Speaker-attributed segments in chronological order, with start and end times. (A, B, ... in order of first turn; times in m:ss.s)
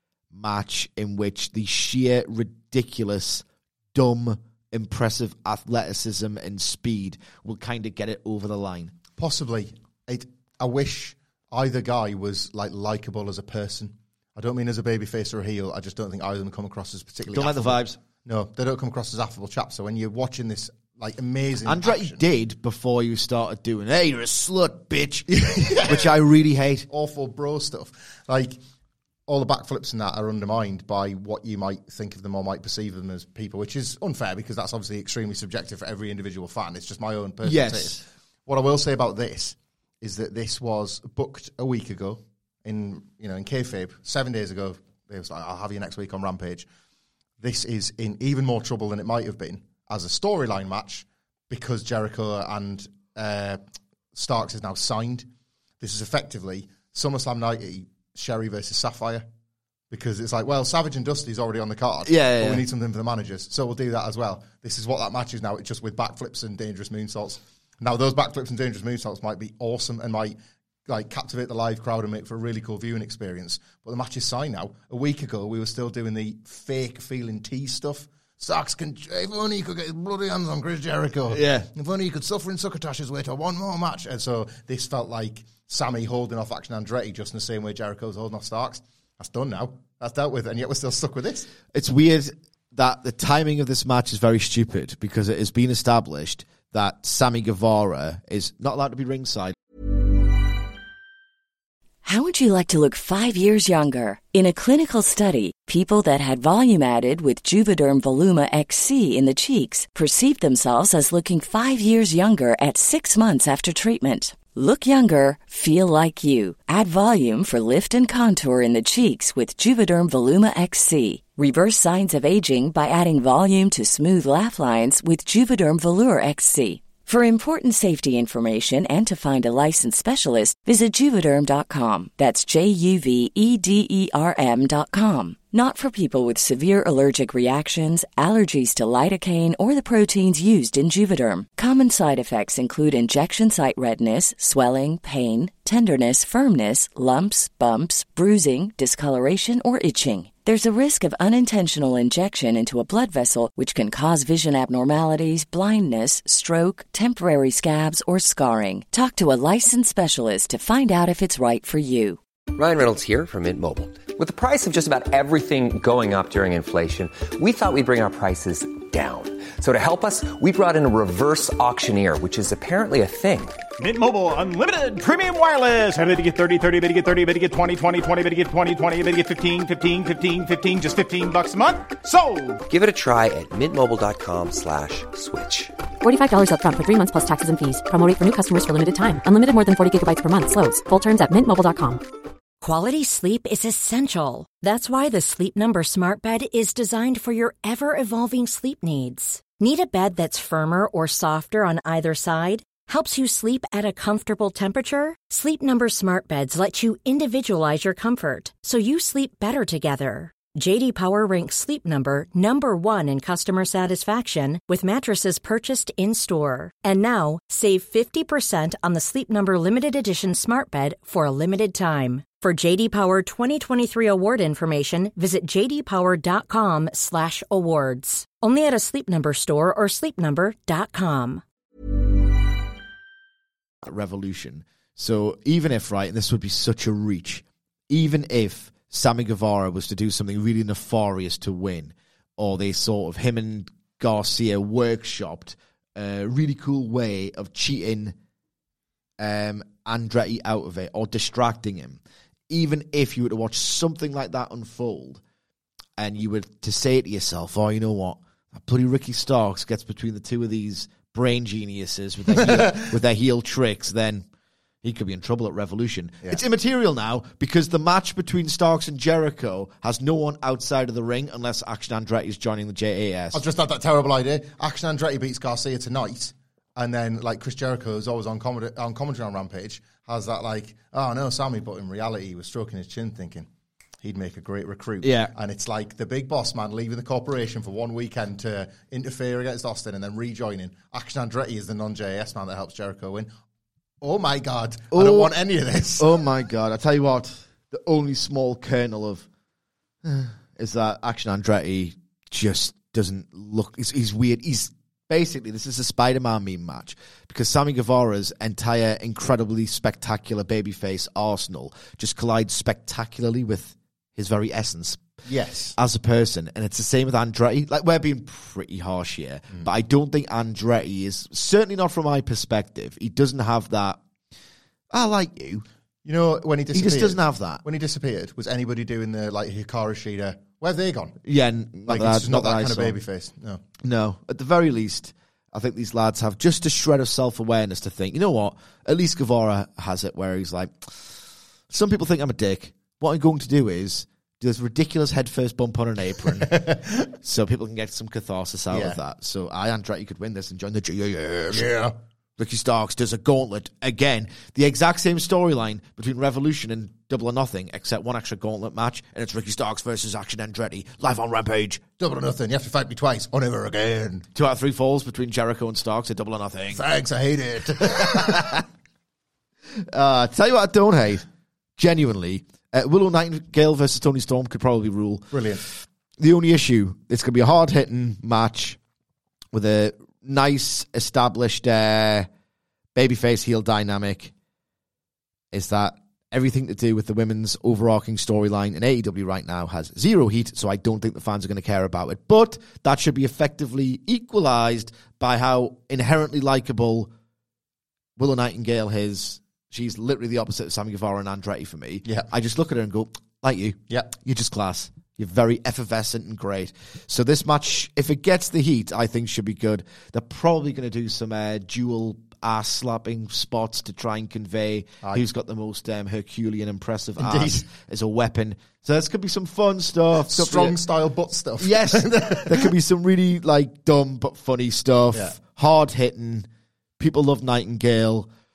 0:00.3-0:09.0 A
0:09.2-0:22.2 B
0:17.3-0:18.0 A
0:21.6-0:26.9 A
0:25.3-0:26.2 B
0:26.9-0:28.6 B
0:29.3-0:46.7 B
0:37.4-0:38.0 A
0:47.4-0:53.6 B
0:54.1-0:55.3 B
0:55.8-0:59.3 B
0:59.9-1:10.4 B
1:02.0-1:02.6 A
1:10.9-1:31.5 B
1:21.3-1:21.7 A
1:31.7-1:39.6 A
1:42.0-2:42.2 C
2:42.5-2:53.6 D
2:53.8-3:02.6 E
3:02.6-3:05.7 D
3:06.0-3:12.0 F
3:12.6-3:51.4 G
3:53.8-4:08.2 A
4:09.2-4:15.2 A
4:16.0-4:24.2 A
4:22.3-4:22.8 B
4:24.8-4:33.4 A
4:33.3-4:43.5 B
4:44.0-4:53.3 B
4:45.0-4:45.3 A
4:54.0-4:56.1 B
4:54.9-4:55.4 A
4:56.0-4:59.3 A
5:00.0-5:15.1 A
5:15.2-5:15.8 B
5:15.8-5:24.0 A
5:24.9-5:25.6 A
5:26.0-5:31.2 B
5:26.7-5:27.6 A
5:31.2-5:33.0 A
5:31.9-5:33.6 B
5:33.8-5:51.7 A
5:46.4-5:47.1 B
5:48.7-5:49.0 B
5:51.5-5:52.0 B
5:52.4-6:01.8 A
6:02.0-6:04.3 B
6:04.3-6:06.8 A
6:06.7-6:08.6 B
6:08.0-6:08.6 A
6:09.9-6:11.2 A
6:11.8-6:18.8 A
6:15.3-6:15.6 B
6:19.5-6:22.3 A
6:23.0-6:24.3 A
6:25.5-6:37.1 A
6:38.2-7:00.8 A
6:57.2-6:57.6 B
7:00.3-7:02.7 B
7:01.6-7:06.5 A
7:07.0-7:08.3 A